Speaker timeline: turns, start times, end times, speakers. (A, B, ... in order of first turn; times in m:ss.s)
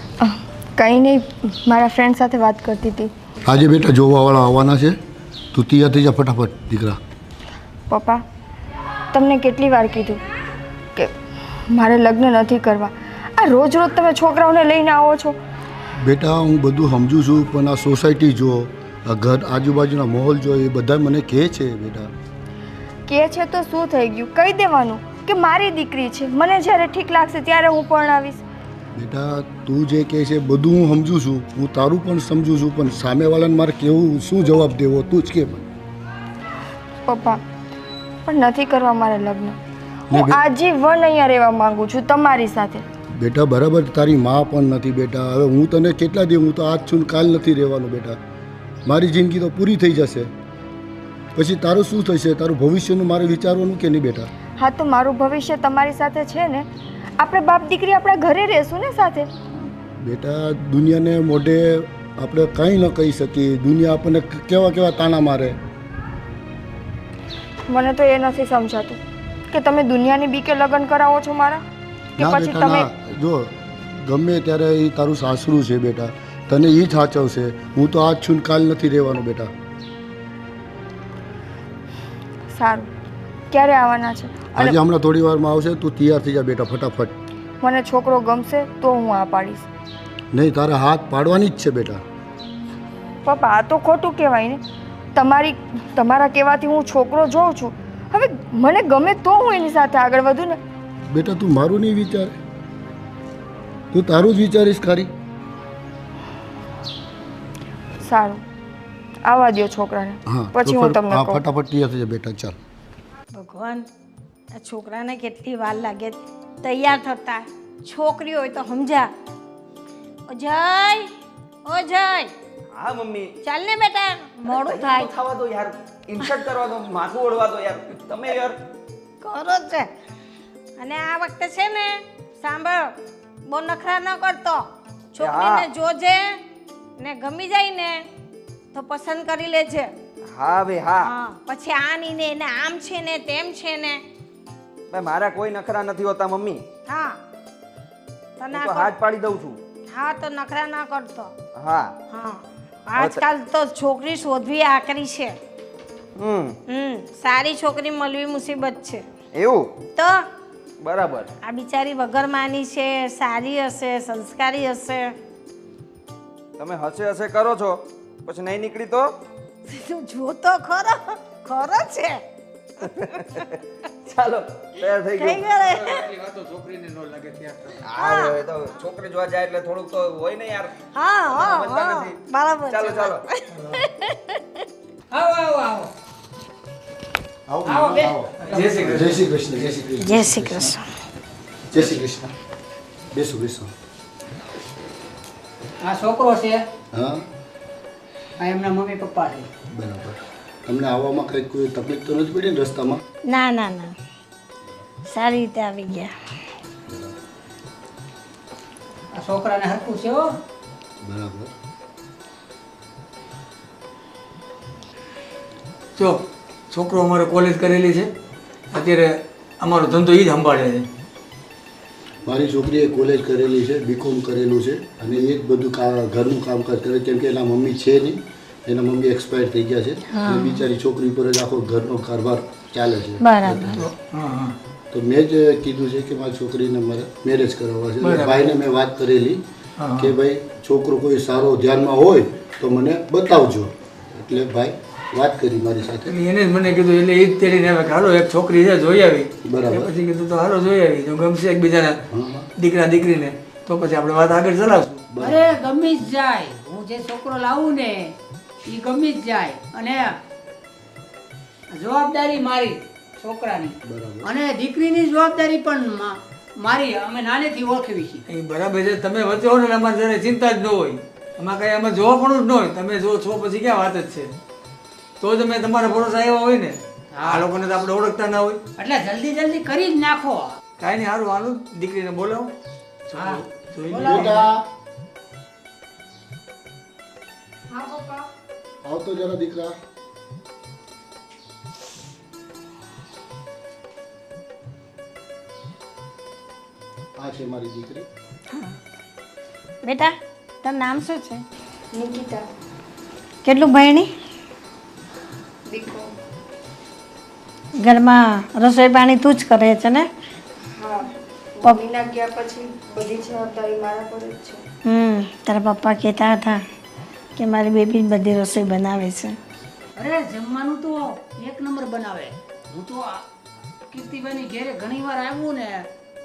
0:00.2-0:03.1 A
0:03.4-0:05.0 B
0:05.5-0:07.0 B
0:07.9-0:08.2 A
0:09.1-0:10.2 A
0:11.7-0:15.4 A
0:15.9-0:22.1 B
0:23.1-0:28.4 A
0:28.9-0:35.7 B
0:37.0-0:37.4 A
0:38.2-0:39.6 A
0:40.1-0:40.4 B
0:40.1-0:42.8 A
0:43.2-0:48.2 B
0:48.8-0:50.3 B
0:51.3-0:54.3 B
0:54.6-0:56.7 A
0:57.2-0:59.3 A
1:00.0-1:05.6 B
1:07.7-1:09.0 A
1:09.5-1:11.6 A
1:12.2-1:12.9 A
1:12.2-1:19.5 B
1:22.5-1:22.9 A
1:23.5-1:24.8 A
1:24.6-1:27.2 B
1:27.6-1:29.6 A
1:30.3-1:32.0 B
1:33.2-1:34.6 A
1:35.1-1:40.6 A
1:41.1-1:42.4 B
1:43.9-1:45.1 B
1:48.0-1:48.4 A
1:49.2-1:51.4 A
1:50.3-1:52.6 B
1:53.4-1:53.8 C
1:54.5-1:59.1 C
2:00.3-2:01.1 C
2:01.6-2:02.3 C
2:02.7-2:03.4 D
2:03.4-2:05.1 C
2:04.4-2:08.6 D
2:09.2-2:09.9 C
2:10.8-2:12.9 C
2:13.5-2:16.4 C
2:15.2-2:15.7 D
2:17.0-2:18.0 C
2:18.7-2:19.9 C
2:20.3-2:21.1 D
2:21.0-2:24.0 C
2:24.9-2:26.6 D
2:26.9-2:27.2 C
2:28.4-2:28.9 C
2:28.5-2:29.6 D
2:29.9-2:31.3 C
2:31.6-2:31.9 D
2:32.1-2:35.4 C
2:36.2-2:36.6 D
2:36.7-2:39.0 C
2:39.3-2:39.7 D
2:40.0-2:40.2 C
2:40.8-2:41.3 D
2:41.4-2:45.1 C
2:46.6-2:49.1 D
2:49.7-2:52.2 C
2:52.8-2:53.2 D
2:54.1-2:55.4 D
2:55.2-2:56.0 C
2:55.5-2:57.8 E
2:57.8-3:00.8 D
2:58.0-2:58.4 C
3:00.9-3:04.4 C
3:01.3-3:02.2 D
3:02.7-3:03.2 D
3:03.5-3:03.8 E
3:05.1-3:05.9 F
3:07.5-3:08.3 B
3:07.6-3:09.0 F
3:08.4-3:09.6 E
3:08.8-3:10.7 B
3:10.0-3:10.8 C
3:11.7-3:12.3 B
3:13.1-3:13.7 B
3:15.8-3:16.6 F
3:16.9-3:17.2 B
3:18.4-3:19.5 F
3:19.7-3:23.0 B
3:23.3-3:23.9 C
3:25.1-3:26.1 C
3:26.9-3:27.1 B
3:29.2-3:30.3 F
3:31.0-3:31.5 B
3:36.0-3:38.1 E
3:38.7-3:40.9 E
3:42.2-3:53.9 B
3:50.1-3:50.6 C
3:53.2-3:53.6 C
3:53.7-3:54.5 E
3:54.9-3:59.4 B
3:58.0-3:58.5 E
3:59.8-4:00.1 E
4:00.0-4:06.1 B
4:06.1-4:12.0 E
4:09.4-4:09.9 B
4:12.1-4:12.5 B
4:12.6-4:15.0 E
4:15.1-4:15.5 B
4:15.2-4:18.1 F
4:18.7-4:20.2 F
4:21.7-4:28.2 F
4:23.8-4:24.3 B
4:28.3-4:34.3 E
4:35.2-4:38.6 E
4:37.1-4:37.7 F
4:38.8-4:40.6 F
4:40.8-4:42.5 E
4:43.1-4:44.4 E
4:43.1-4:44.5 F
4:44.0-4:44.6 B
4:47.7-4:48.2 A
4:48.8-4:49.8 B
4:57.2-4:58.0 B
4:59.8-5:01.4 C
5:01.9-5:02.4 A
5:03.4-5:04.1 C
5:05.7-5:06.1 A
5:07.8-5:10.1 C
5:10.8-5:14.6 A
5:14.8-5:16.6 C
5:17.4-5:19.4 C
5:20.0-5:23.2 F
5:23.9-5:25.9 F